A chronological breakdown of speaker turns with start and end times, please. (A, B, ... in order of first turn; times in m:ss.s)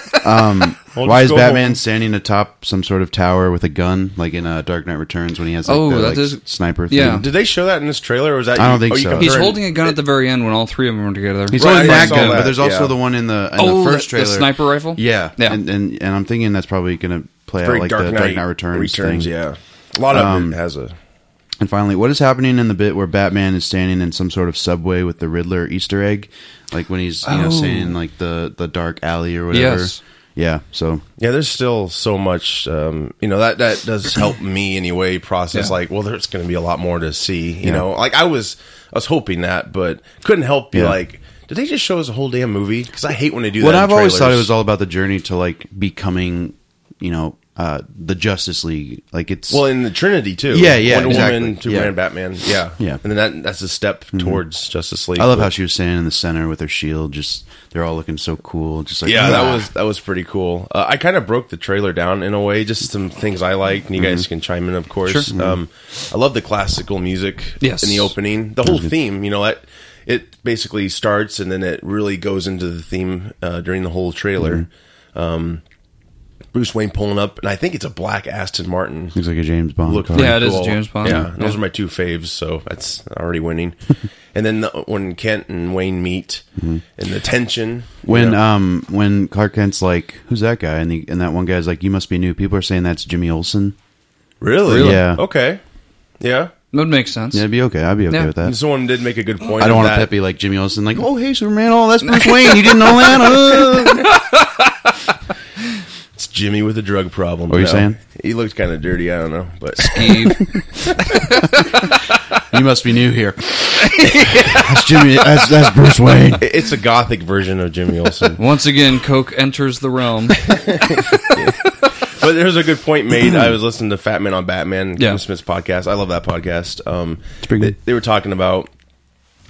0:00.2-0:07.3 A
0:00.9-0:01.8 B
0:05.6-0:07.2 C
0:07.0-0:10.0 B
0:08.6-0:09.5 A
0:09.2-0:12.4 C
0:11.5-0:19.3 A
0:11.6-0:12.9 B
0:13.6-0:15.6 C
0:17.6-0:20.9 B
0:20.1-0:20.6 A
0:21.6-0:31.0 A
0:27.2-0:27.9 C
0:29.5-0:30.0 C
0:31.2-0:44.5 B
0:43.6-0:49.6 A
0:49.5-0:55.5 B
0:50.5-0:51.9 A
0:54.1-0:54.4 A
0:55.2-0:59.7 A
0:59.0-1:15.6 B
1:04.0-1:04.2 A
1:05.3-1:05.6 A
1:07.6-1:08.1 C
1:08.6-1:08.9 A
1:14.4-1:14.6 A
1:16.5-1:19.2 B
1:19.1-1:20.4 A
1:19.8-1:26.4 B
1:20.1-1:21.6 C
1:21.0-1:21.3 A
1:26.6-1:26.8 A
1:27.0-1:28.4 B
1:28.0-1:33.8 A
1:34.4-1:35.6 B
1:34.7-1:35.0 C
1:34.7-1:35.2 A
1:36.2-1:36.5 B
1:36.7-1:37.5 C
1:37.3-1:38.6 A
1:38.4-1:40.1 B
1:39.6-1:44.1 A
1:42.0-1:42.7 C
1:44.1-1:44.6 C
1:46.2-1:50.4 B
1:47.5-1:48.0 A
1:49.8-1:50.4 C
1:51.1-1:51.7 C
1:52.5-1:56.5 A
1:54.0-1:54.5 C
1:56.4-1:58.4 B
1:58.4-2:00.4 C
2:00.4-2:08.7 B
2:07.4-2:07.8 A